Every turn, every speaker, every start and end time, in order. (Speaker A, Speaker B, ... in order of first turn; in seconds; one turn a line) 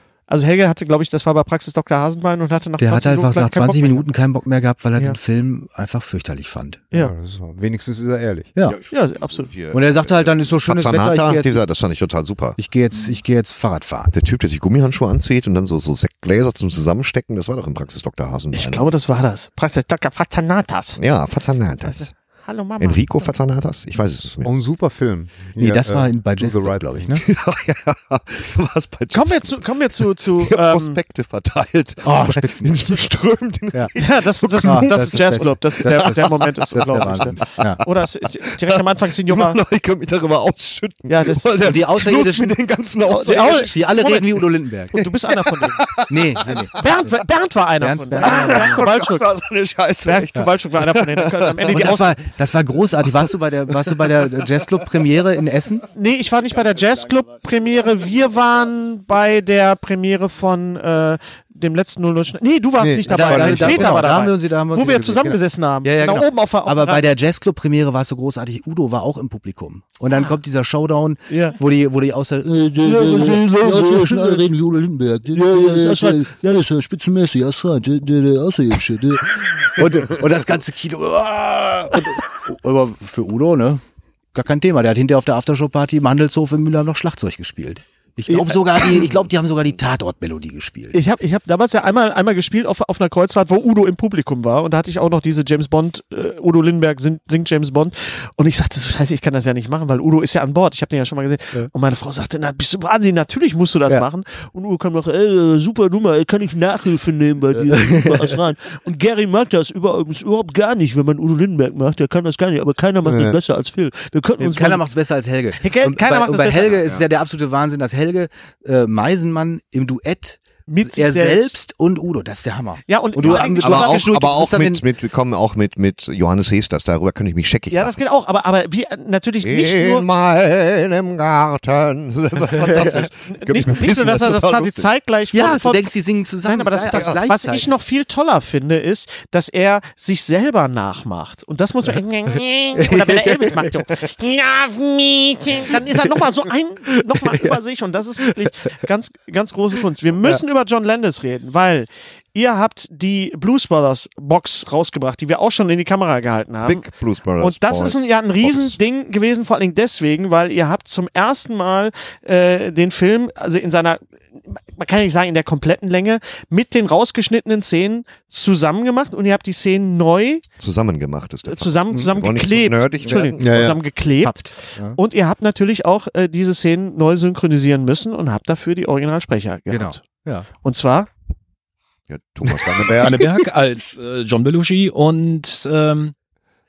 Speaker A: 0.3-4.1
Speaker B: 2.8-6.9
Speaker C: 6.9-8.5
Speaker D: 8.6-12.6
Speaker A: 8.9-9.5
Speaker B: 9.7-11.6
Speaker B: 12.6-14.1
Speaker D: 14.1-18.9
Speaker A: 18.5-21.0
Speaker D: 21.0-22.1
Speaker A: 21.8-23.3
Speaker D: 22.8-24.5
Speaker C: 24.4-26.9
Speaker B: 25.6-27.2
Speaker D: 27.2-37.9
Speaker A: 29.1-31.0
Speaker B: 32.0-33.1
Speaker A: 34.0-39.6
Speaker B: 34.6-37.8
Speaker D: 38.5-43.7
Speaker A: 41.1-42.3
Speaker B: 41.6-42.6
Speaker A: 43.1-45.9
Speaker B: 43.4-44.9
Speaker D: 45.0-46.8
Speaker B: 46.1-46.8
Speaker A: 46.8-49.3
Speaker B: 47.8-48.8
Speaker D: 48.2-52.0
Speaker A: 50.0-52.2
Speaker B: 51.7-55.9
Speaker D: 53.2-54.4
Speaker A: 55.9-67.0
Speaker C: 62.8-64.0
Speaker B: 63.1-83.8
Speaker A: 71.3-71.6
Speaker A: 72.8-74.5
Speaker A: 75.3-76.7
Speaker B: 84.3-91.0
Speaker A: 88.3-88.6
Speaker A: 90.9-114.8
Speaker B: 107.5-108.4
Speaker C: 113.0-113.4
Speaker B: 114.4-124.8
Speaker A: 115.6-117.0
Speaker A: 120.7-121.5
Speaker A: 122.9-124.1
Speaker D: 123.2-128.0
Speaker A: 127.7-130.1
Speaker D: 129.4-134.9
Speaker B: 132.6-133.0
Speaker A: 132.6-135.9
Speaker B: 135.3-137.7
Speaker A: 136.4-156.9
Speaker D: 136.9-137.2
Speaker C: 143.0-143.4
Speaker D: 156.6-158.8
Speaker A: 157.4-170.4
Speaker D: 170.6-173.7
Speaker A: 171.5-180.0
Speaker B: 173.0-173.3
Speaker C: 173.4-173.8
Speaker B: 174.2-175.0
Speaker B: 179.7-180.5
Speaker A: 180.6-181.1
Speaker D: 182.1-183.4
Speaker E: 182.9-186.1